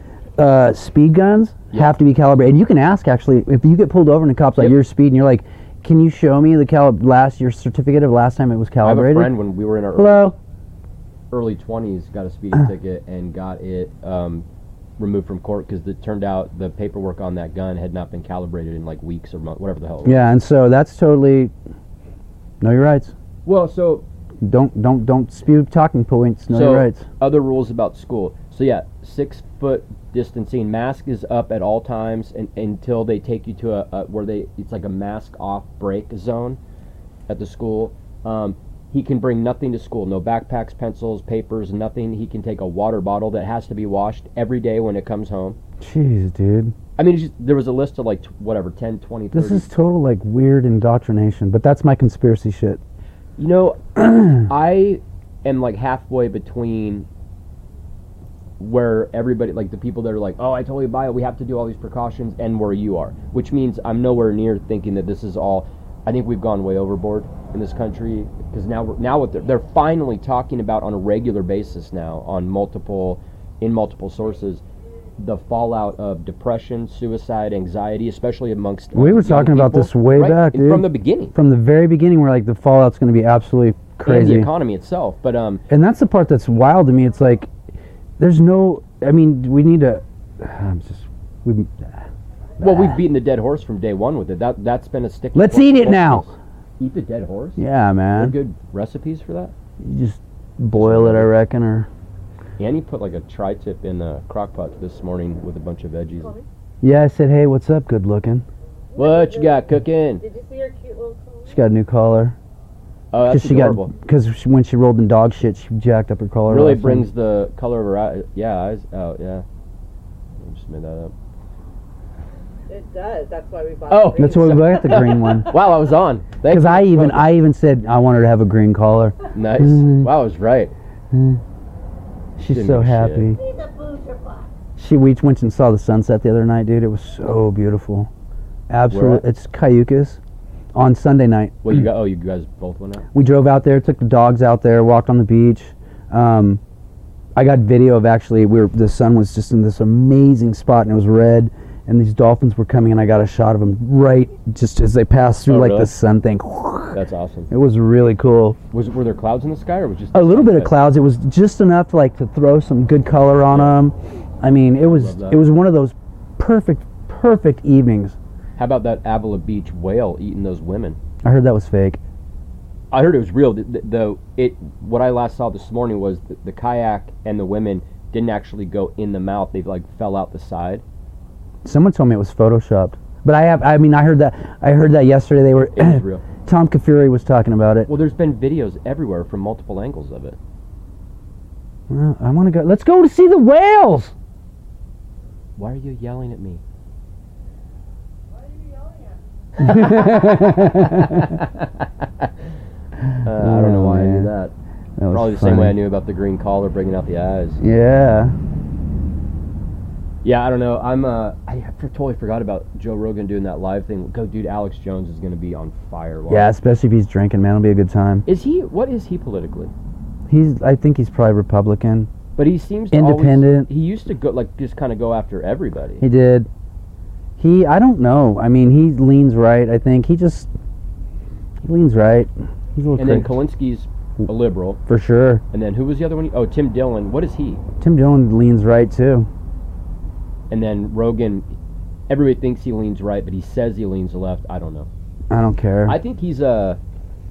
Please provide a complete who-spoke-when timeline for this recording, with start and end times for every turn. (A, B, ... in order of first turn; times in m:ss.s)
0:00.4-0:09.3 A
0:08.8-0:10.3 B
0:10.0-0:10.3 A
0:11.3-0:14.4 B
0:15.0-0:20.2 B
0:20.0-0:21.5 A
0:22.6-0:23.1 A
0:23.4-0:24.0 B
0:24.4-0:27.0 A
0:26.5-0:36.6 B
0:37.3-0:45.6 B
0:45.8-0:46.7 A
0:47.0-0:49.7 B
0:49.3-0:52.8 A
0:53.4-0:57.0 B
0:54.0-0:54.4 A
0:58.6-1:14.6 B
1:15.2-1:21.4 B
1:18.9-1:24.5 A
1:24.0-1:25.6 B
1:25.7-1:27.5 A
1:28.2-1:32.0 A
1:32.6-1:37.6 B
1:32.6-1:33.0 A
1:35.3-1:36.3 A
1:37.6-1:38.3 A
1:38.1-1:39.5 B
1:39.8-1:41.9 A
1:40.7-1:41.3 B
1:42.6-1:46.3 B
1:46.2-1:46.4 C
1:46.8-1:48.4 A
1:48.9-1:51.6 C
1:49.0-1:50.2 B
1:51.5-1:52.4 A
1:53.1-1:53.9 B
1:53.2-1:57.1 A
1:56.5-1:59.4 B
2:00.4-2:01.1 B
2:02.7-2:05.6 C
2:03.9-2:07.3 B
2:04.2-2:05.5 A
2:06.5-2:10.1 A
2:09.3-2:10.7 B
2:11.1-2:11.4 A
2:12.4-2:13.4 A
2:12.5-2:13.3 B
2:13.4-2:14.5 C
2:14.8-2:18.1 A
2:18.7-2:20.2 A
2:18.9-2:19.2 B
2:20.7-2:21.9 A
2:21.6-2:23.0 B
2:23.1-2:26.6 A
2:27.4-2:37.0 A
2:35.5-2:35.9 B
2:36.9-2:37.5 B
2:37.5-2:38.6 A
2:38.7-2:40.7 B
2:40.1-2:48.2 A
2:43.5-2:43.8 B
2:44.8-2:45.4 B
2:48.6-2:51.0 B
2:51.2-2:52.0 A
2:52.9-3:00.8 B
3:01.6-3:07.9 A
3:05.7-3:06.2 B
3:07.9-3:10.4 B
3:11.9-3:14.1 A
3:15.6-3:16.6 B
3:18.5-3:19.1 C
3:19.6-3:22.3 B
3:19.6-3:21.4 A
3:23.2-3:24.5 B
3:23.4-3:24.3 A
3:25.0-3:25.8 A
3:25.1-3:27.6 B
3:27.6-3:28.3 A
3:30.2-3:36.5 B
3:36.3-3:38.2 A
3:38.2-3:39.7 B
3:40.3-3:42.1 A
3:42.4-3:46.0 B
3:42.9-3:43.7 A
3:46.0-3:46.5 A
3:47.4-3:50.5 A
3:51.6-3:53.3 A
3:53.0-3:54.8 B
3:54.9-3:55.4 A
3:55.5-3:57.6 B
3:57.8-3:59.3 A
4:00.5-4:01.4 B
4:02.1-4:04.9 B
4:05.3-4:06.0 A
4:05.9-4:06.8 B